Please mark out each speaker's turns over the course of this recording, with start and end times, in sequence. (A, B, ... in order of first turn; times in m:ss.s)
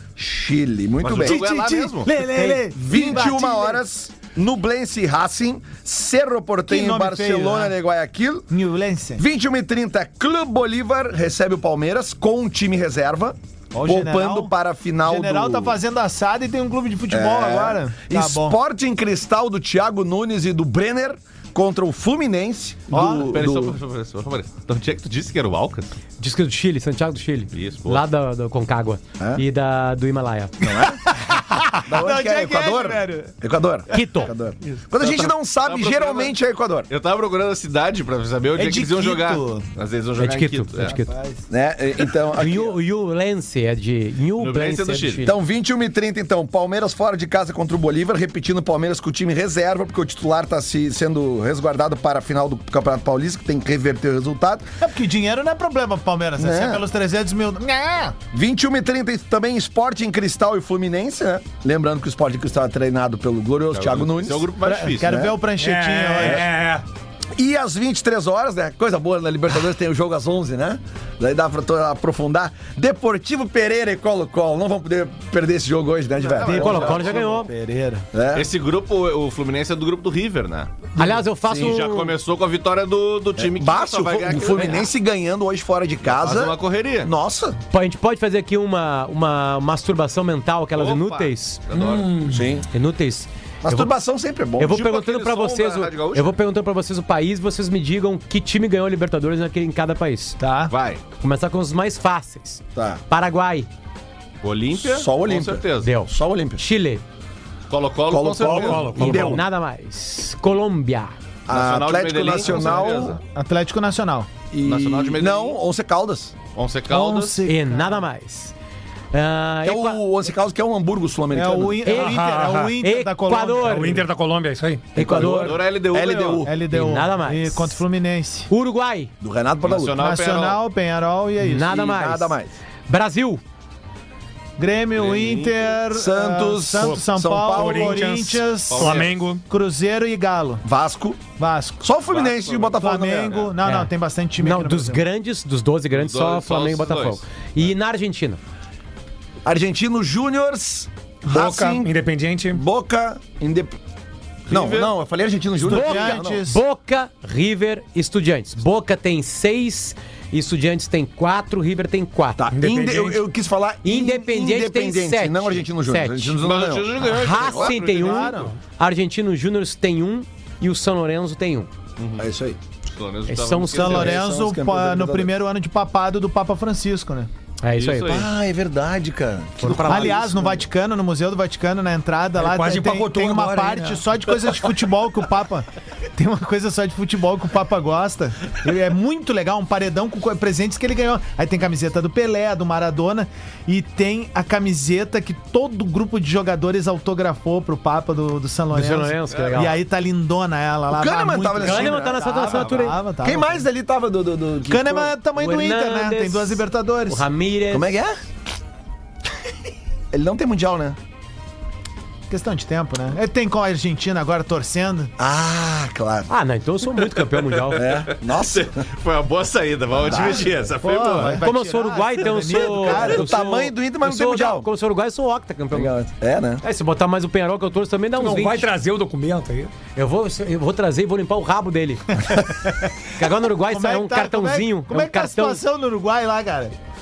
0:00.2-0:01.4 A
0:01.0-0:02.1 B
0:01.2-0:03.8 C
0:02.1-0:02.7 D
0:02.4-0:08.5 A
0:06.7-0:07.7 C
0:08.5-0:09.2 C
0:09.2-0:15.8 A
0:13.7-0:14.5 C
0:15.0-0:18.6 C
0:17.1-0:23.8 A
0:22.9-0:23.3 C
0:23.1-0:26.0 B
0:26.2-0:30.6 D
0:27.5-0:28.0 B
0:30.6-0:31.0 A
0:31.0-0:33.3 C
0:31.8-0:36.9 A
0:33.9-0:34.3 D
0:35.0-0:36.3 B
0:36.9-0:40.9 B
0:38.6-0:39.6 C
0:40.2-0:41.1 D
0:40.8-0:41.5 C
0:41.5-0:42.8 A
0:42.3-0:45.4 D
0:44.4-0:45.2 B
0:45.2-0:54.7 A
0:54.8-0:58.2 C
0:56.4-0:56.8 A
0:58.3-1:05.4 A
1:03.7-1:05.2 B
1:04.6-1:06.5 C
1:05.6-1:06.8 E
1:06.2-1:06.4 A
1:07.4-1:17.1 A
1:16.2-1:17.3 B
1:16.4-1:18.0 C
1:16.5-1:17.5 D
1:18.1-1:18.5 A
1:18.3-1:20.7 B
1:21.0-1:22.1 D
1:21.5-1:21.8 A
1:21.5-1:24.9 B
1:23.4-1:27.6 A
1:26.0-1:27.1 B
1:27.7-1:31.6 D
1:30.7-1:32.1 B
1:31.8-1:32.4 E
1:32.3-1:32.6 A
1:32.7-1:33.9 D
1:33.6-1:34.8 A
1:34.6-1:40.4 D
1:34.7-1:36.3 B
1:40.4-1:40.7 C
1:40.7-1:41.0 B
1:41.2-1:43.7 D
1:42.7-1:43.0 A
1:44.4-1:45.9 B
1:44.8-1:46.6 A
1:45.8-1:47.0 D
1:47.7-1:48.9 B
1:48.1-1:49.4 A
1:48.4-1:49.4 E
1:48.9-1:51.1 D
1:51.5-1:53.2 A
1:51.5-1:53.2 B
1:53.2-1:54.3 C
1:54.5-1:56.3 A
1:54.6-1:55.6 B
1:56.5-1:57.4 B
1:56.9-1:58.0 C
1:57.4-1:58.5 D
1:59.1-2:00.0 D
1:59.6-2:01.8 A
2:01.3-2:04.0 C
2:01.8-2:04.0 D
2:01.9-2:02.8 E
2:03.6-2:04.9 E
2:04.9-2:05.6 D
2:05.0-2:06.6 A
2:05.0-2:06.5 B
2:06.4-2:08.5 C
2:06.7-2:07.8 D
2:08.5-2:09.1 D
2:09.2-2:10.0 A
2:09.6-2:10.6 B
2:10.0-2:11.7 C
2:11.4-2:12.3 D
2:11.6-2:12.5 A
2:12.9-2:13.4 D
2:14.6-2:20.6 C
2:14.9-2:15.8 B
2:15.9-2:18.1 A
2:16.8-2:19.4 E
2:18.7-2:19.2 B
2:20.6-2:21.2 A
2:21.4-2:21.8 C
2:21.8-2:23.5 A
2:22.1-2:22.8 B
2:22.7-2:25.0 C
2:23.6-2:28.4 D
2:25.9-2:27.6 B
2:29.4-2:31.9 A
2:31.3-2:32.6 E
2:32.5-2:33.8 A
2:34.5-2:34.9 B
2:34.5-2:36.4 A
2:35.6-2:42.4 D
2:35.6-2:36.6 C
2:42.4-2:47.7 A
2:42.5-2:43.2 E
2:43.8-2:46.4 D
2:46.4-2:48.5 B
2:47.0-2:51.7 D
2:47.9-2:48.6 C
2:52.0-2:52.2 B
2:52.2-2:52.6 A
2:52.9-2:54.1 B
2:53.3-2:54.2 D
2:53.7-2:57.3 C
2:53.8-2:55.3 A
2:57.6-2:58.3 D
2:57.8-2:58.3 B
2:58.0-3:00.6 A
2:59.6-3:00.3 D
2:59.8-3:23.6 C
3:02.4-3:04.0 E
3:18.7-3:19.8 D
3:19.3-3:19.7 B
3:20.9-3:22.6 A
3:21.6-3:23.0 D
3:23.2-3:25.2 A
3:24.7-3:27.2 C
3:25.4-3:27.9 D
3:27.7-3:28.2 A
3:30.1-3:31.0 A
3:32.3-3:35.1 C
3:35.2-3:36.3 A
3:36.3-3:37.8 D
3:37.0-3:41.4 B
3:37.7-3:38.8 A
3:40.0-3:40.5 A
3:40.8-3:43.4 C
3:41.3-3:45.9 D
3:42.3-3:44.7 A
3:45.7-3:46.6 A
3:46.6-3:48.7 D
3:48.2-3:49.7 E
3:49.9-3:52.2 D
3:52.2-3:56.7 C
3:53.1-3:55.6 D